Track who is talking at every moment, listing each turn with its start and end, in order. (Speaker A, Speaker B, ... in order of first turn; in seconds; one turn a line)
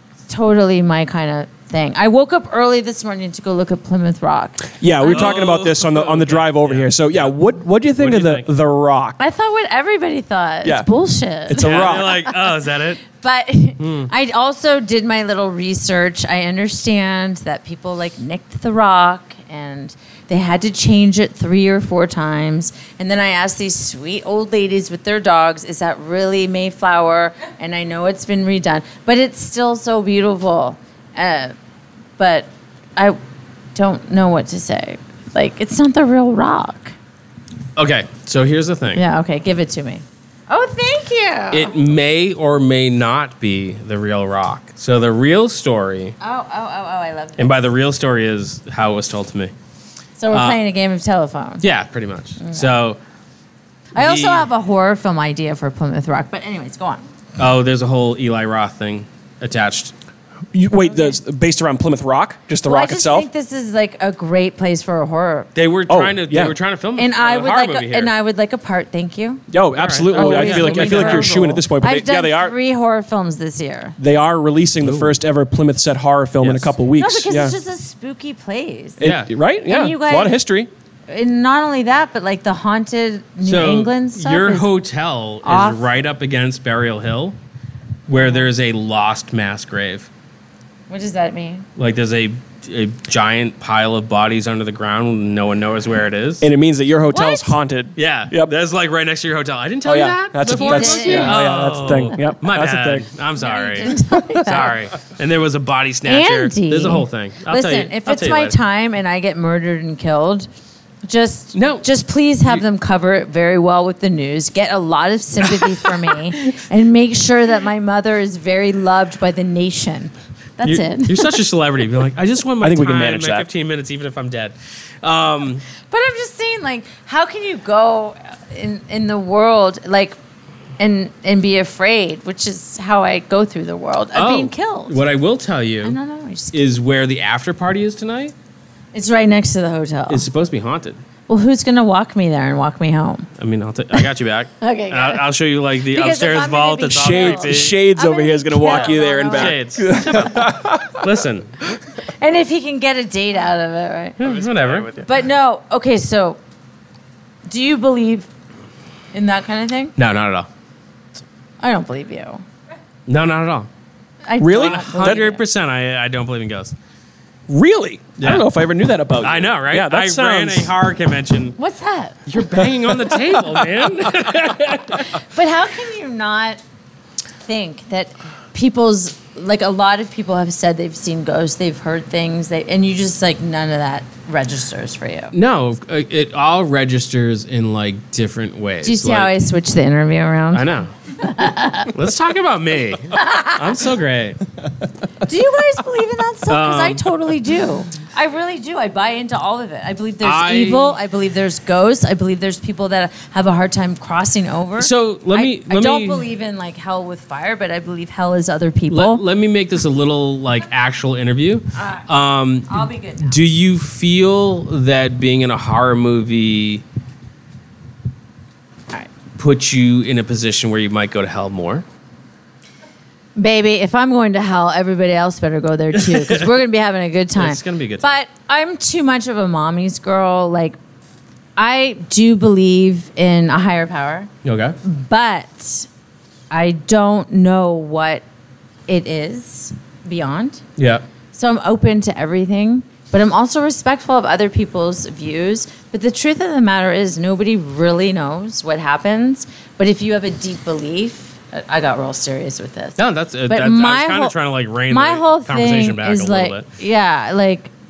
Speaker A: 0.3-5.4
Speaker B: 4.8-9.2
Speaker C: 5.0-7.3
Speaker C: 8.0-8.5
Speaker A: 9.2-12.3
Speaker B: 10.6-10.9
Speaker B: 11.4-12.2
Speaker C: 11.6-13.0
Speaker A: 13.1-31.6
Speaker C: 13.8-14.1
Speaker A: 32.2-33.2
Speaker A: 33.7-36.9
Speaker C: 37.8-39.0
Speaker A: 39.0-41.7
Speaker C: 41.5-46.1
Speaker A: 46.2-47.6
Speaker C: 47.4-49.5
Speaker A: 50.2-51.6
Speaker C: 50.3-50.6
Speaker C: 51.6-53.0
Speaker A: 52.4-52.7
Speaker A: 53.9-57.0
Speaker C: 54.0-54.5
Speaker C: 57.4-59.9
Speaker B: 60.5-63.3
Speaker A: 60.9-61.1
Speaker A: 62.6-65.5
Speaker C: 65.5-68.1
Speaker B: 65.9-66.6
Speaker A: 67.0-69.4
Speaker B: 69.5-72.5
Speaker C: 69.7-71.4
Speaker A: 70.1-74.0
Speaker B: 74.0-77.5
Speaker C: 74.8-75.1
Speaker C: 76.4-76.7
Speaker A: 77.0-79.0
Speaker B: 79.0-80.7
Speaker C: 79.0-79.3
Speaker A: 79.7-80.4
Speaker A: 81.1-84.7
Speaker C: 83.4-87.4
Speaker A: 85.4-85.8
Speaker C: 88.1-90.1
Speaker A: 88.1-88.5
Speaker A: 90.9-91.6
Speaker C: 91.8-96.5
Speaker B: 96.4-98.5
Speaker A: 97.1-97.5
Speaker C: 98.0-108.5
Speaker B: 99.8-103.1
Speaker A: 100.5-101.7
Speaker A: 103.3-104.8
Speaker A: 106.1-110.5
Speaker A: 111.0-121.3
Speaker C: 111.5-111.9
Speaker C: 120.6-125.6
Speaker B: 122.6-123.5
Speaker A: 125.9-130.2
Speaker A: 130.8-135.0
Speaker C: 134.1-136.0
Speaker A: 135.8-136.6
Speaker C: 136.5-138.3
Speaker A: 138.9-140.2
Speaker C: 140.1-141.0
Speaker A: 141.3-143.3
Speaker C: 143.4-147.8
Speaker A: 144.6-145.2
Speaker A: 145.9-149.6
Speaker B: 146.9-151.1
Speaker C: 148.6-151.7
Speaker A: 152.1-154.2
Speaker C: 154.2-155.0
Speaker B: 154.2-155.0
Speaker A: 154.9-156.4
Speaker A: 157.5-158.3
Speaker A: 159.1-159.9
Speaker C: 160.0-160.5
Speaker A: 161.6-162.4
Speaker C: 163.1-163.7
Speaker A: 164.2-165.4
Speaker B: 164.4-165.2
Speaker C: 164.5-166.7
Speaker B: 167.5-170.7
Speaker C: 168.2-168.5
Speaker C: 169.2-171.6
Speaker A: 171.6-172.2
Speaker C: 172.2-175.2
Speaker B: 172.6-173.6
Speaker A: 175.2-176.6
Speaker A: 177.4-185.3
Speaker C: 185.3-189.3
Speaker A: 188.8-190.6
Speaker C: 190.5-190.9
Speaker A: 191.2-191.9
Speaker C: 191.9-194.4
Speaker A: 193.1-193.8
Speaker A: 195.2-209.2
Speaker C: 196.5-197.1
Speaker C: 200.2-201.0
Speaker C: 204.8-206.3
Speaker C: 208.9-216.8
Speaker A: 211.8-212.1
Speaker A: 212.7-213.4
Speaker C: 219.4-221.8
Speaker A: 223.4-230.8
Speaker C: 226.0-226.4
Speaker C: 227.3-228.1
Speaker A: 231.6-234.3
Speaker C: 234.4-234.8
Speaker A: 234.8-235.9
Speaker A: 236.5-238.2
Speaker A: 238.9-240.6
Speaker C: 240.8-241.0
Speaker A: 241.3-254.3
Speaker C: 253.0-256.6
Speaker A: 254.9-257.7